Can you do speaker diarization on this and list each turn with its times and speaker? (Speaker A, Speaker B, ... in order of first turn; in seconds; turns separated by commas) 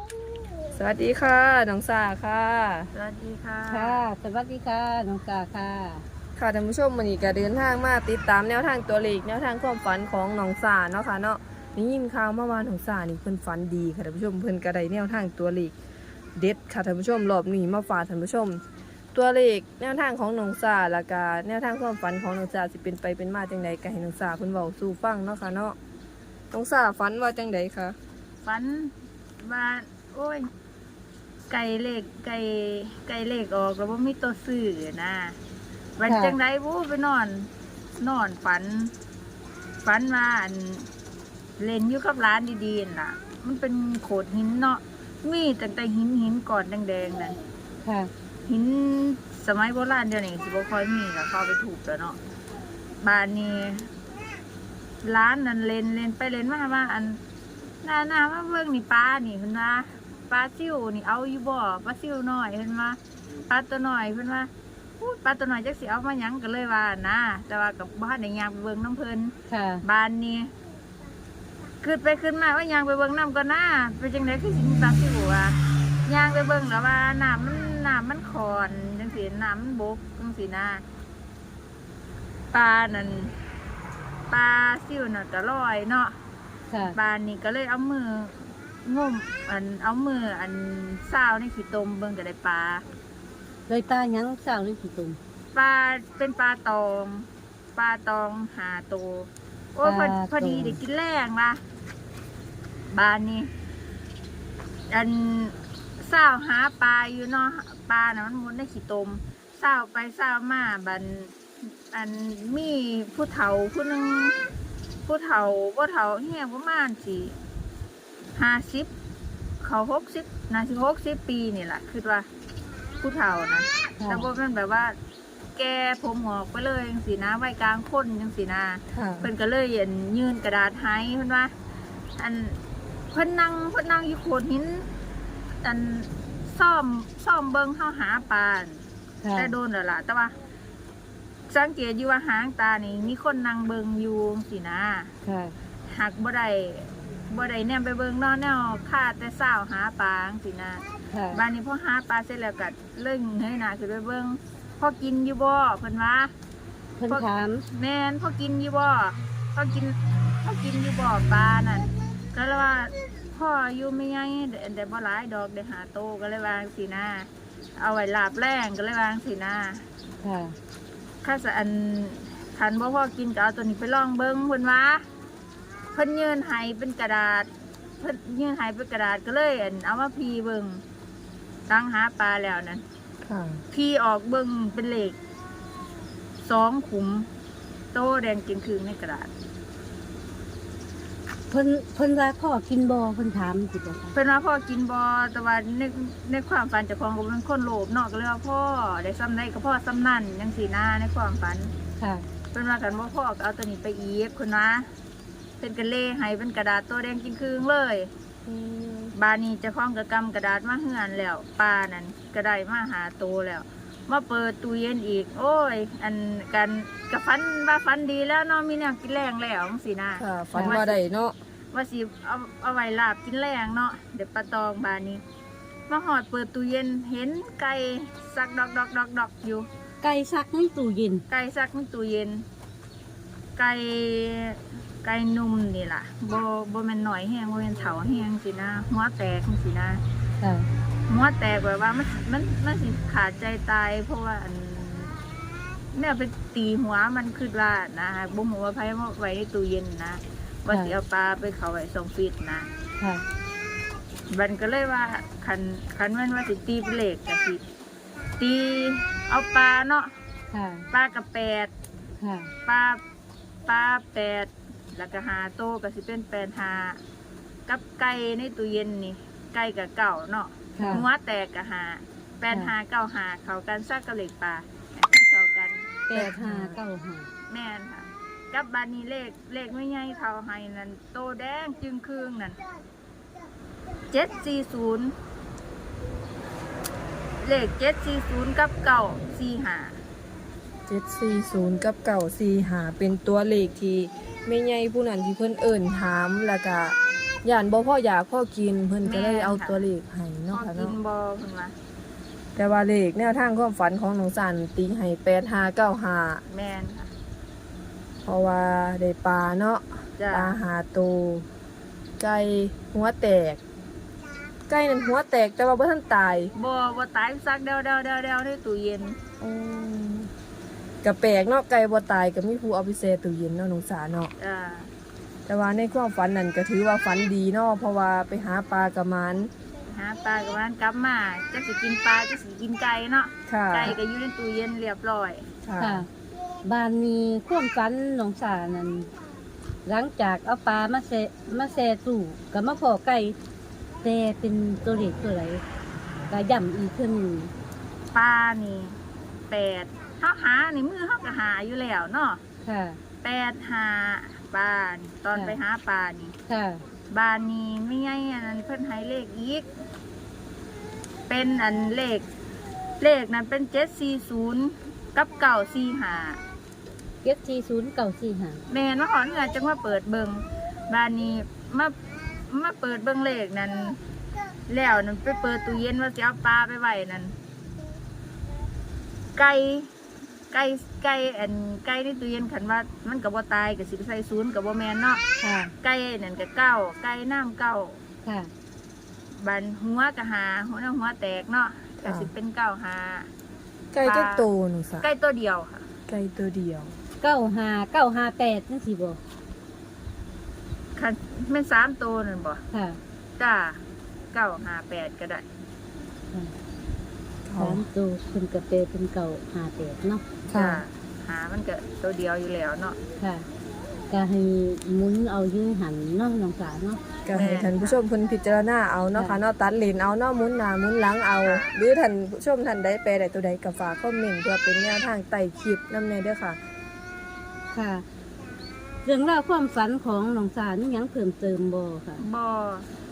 Speaker A: 0.7-2.9, Speaker B: 2.9-4.0, Speaker C: 3.7-6.0, Speaker A: 6.4-15.7, Speaker A: 16.4-18.6, Speaker A: 19.1-25.8, Speaker A: 26.5-27.9, Speaker B: 28.4-30.4, Speaker B: 31.5-35.4, Speaker B: 36.0-38.9, Speaker C: 36.0-36.4, Speaker B: 39.8-40.9, Speaker B: 41.6-47.4, Speaker C: 47.8-48.1, Speaker B: 48.5-52.2, Speaker B: 53.0-53.9, Speaker B: 55.0-57.2, Speaker B: 57.8-64.5, Speaker B: 65.0-70.5, Speaker C: 69.5-69.8, Speaker B: 71.8-80.8, Speaker B: 82.5-83.3, Speaker B: 84.3-86.2, Speaker C: 86.7-87.0, Speaker B: 86.9-92.8, Speaker C: 93.7-95.2, Speaker B: 95.5-101.6, Speaker C: 99.8-100.8, Speaker B: 102.8-103.5, Speaker B: 104.9-114.3, Speaker B: 115.0-117.4, Speaker B: 118.3-118.9, Speaker B: 119.6-122.3, Speaker B: 123.0-125.0, Speaker C: 124.0-124.3, Speaker B: 125.5-131.5, Speaker A: 128.9-129.3, Speaker B: 132.2-132.6, Speaker B: 133.1-134.9, Speaker B: 135.6-138.8, Speaker C: 139.2-139.5, Speaker B: 139.3-140.3, Speaker B: 141.5-145.1, Speaker C: 145.2-145.5, Speaker B: 145.9-156.3, Speaker C: 151.1-151.4, Speaker C: 157.0-157.6, Speaker B: 157.1-169.8, Speaker C: 170.2-170.6, Speaker B: 171.2-175.1, Speaker B: 175.9-180.8, Speaker B: 181.7-182.8, Speaker A: 183.2-183.6, Speaker B: 183.7-185.2, Speaker B: 186.4-187.3, Speaker B: 187.9-189.3, Speaker C: 191.5-194.1, Speaker B: 194.1-201.7, Speaker C: 202.0-202.2, Speaker B: 202.5-204.9, Speaker B: 205.6-208.1, Speaker A: 208.4-209.1, Speaker B: 209.1-221.0, Speaker A: 220.2-221.3, Speaker C: 220.5-220.8, Speaker B: 221.7-225.2, Speaker B: 225.9-229.7, Speaker C: 230.0-231.2, Speaker B: 231.3-232.4, Speaker B: 233.6-240.0, Speaker C: 240.4-240.7, Speaker B: 241.1-245.2, Speaker B: 245.9-252.7, Speaker C: 250.7-250.9, Speaker C: 253.0-253.2, Speaker B: 254.3-257.6, Speaker B: 258.4-260.1, Speaker C: 260.5-260.9, Speaker B: 260.9-261.7, Speaker C: 262.2-262.5, Speaker B: 262.6-263.0, Speaker B: 263.6-267.0, Speaker B: 267.7-276.2, Speaker C: 270.7-271.1, Speaker C: 276.1-277.3, Speaker A: 276.2-276.8, Speaker B: 277.5-282.6, Speaker B: 284.1-285.1, Speaker B: 287.4-290.0, Speaker A: 290.9-300.9, Speaker B: 299.0-299.9, Speaker B: 300.5-301.7, Speaker A: 302.6-306.4, Speaker B: 306.5-307.1, Speaker A: 308.2-311.4, Speaker B: 310.2-310.6, Speaker A: 312.2-313.6, Speaker A: 314.7-316.5, Speaker B: 316.5-319.2, Speaker A: 319.4-320.3, Speaker A: 321.0-324.3, Speaker B: 324.4-324.9, Speaker A: 325.5-329.5, Speaker B: 329.9-335.5, Speaker A: 333.5-334.0, Speaker A: 335.6-336.1, Speaker C: 335.8-336.1, Speaker C: 336.6-339.1, Speaker C: 339.9-343.4, Speaker C: 344.0-345.6, Speaker C: 346.3-347.5, Speaker B: 348.1-349.0, Speaker B: 349.5-352.4, Speaker C: 352.6-353.0, Speaker B: 353.2-356.4, Speaker C: 356.5-356.8, Speaker B: 357.1-359.7, Speaker B: 361.3-362.2, Speaker B: 363.0-366.4, Speaker C: 367.2-368.6, Speaker B: 368.7-372.0, Speaker B: 372.5-374.0, Speaker B: 374.7-377.3, Speaker B: 379.3-379.9, Speaker B: 380.5-385.2, Speaker C: 385.4-385.7, Speaker B: 385.8-388.0, Speaker C: 388.2-388.5, Speaker B: 389.3-393.3, Speaker A: 392.0-392.3, Speaker A: 393.9-395.1, Speaker B: 394.0-394.5, Speaker B: 395.0-395.9, Speaker A: 396.1-397.0, Speaker C: 397.2-399.2, Speaker B: 400.9-402.6, Speaker C: 402.7-403.0, Speaker B: 403.4-403.8, Speaker B: 404.3-405.4, Speaker A: 407.4-407.8, Speaker C: 407.6-410.2, Speaker A: 410.5-410.8, Speaker B: 410.5-413.0, Speaker C: 413.2-413.5, Speaker C: 414.1-417.0, Speaker A: 417.2-426.6, Speaker B: 417.3-418.0, Speaker C: 419.1-419.4, Speaker B: 421.4-421.7, Speaker C: 427.7-428.0, Speaker C: 429.0-432.2, Speaker B: 432.2-432.9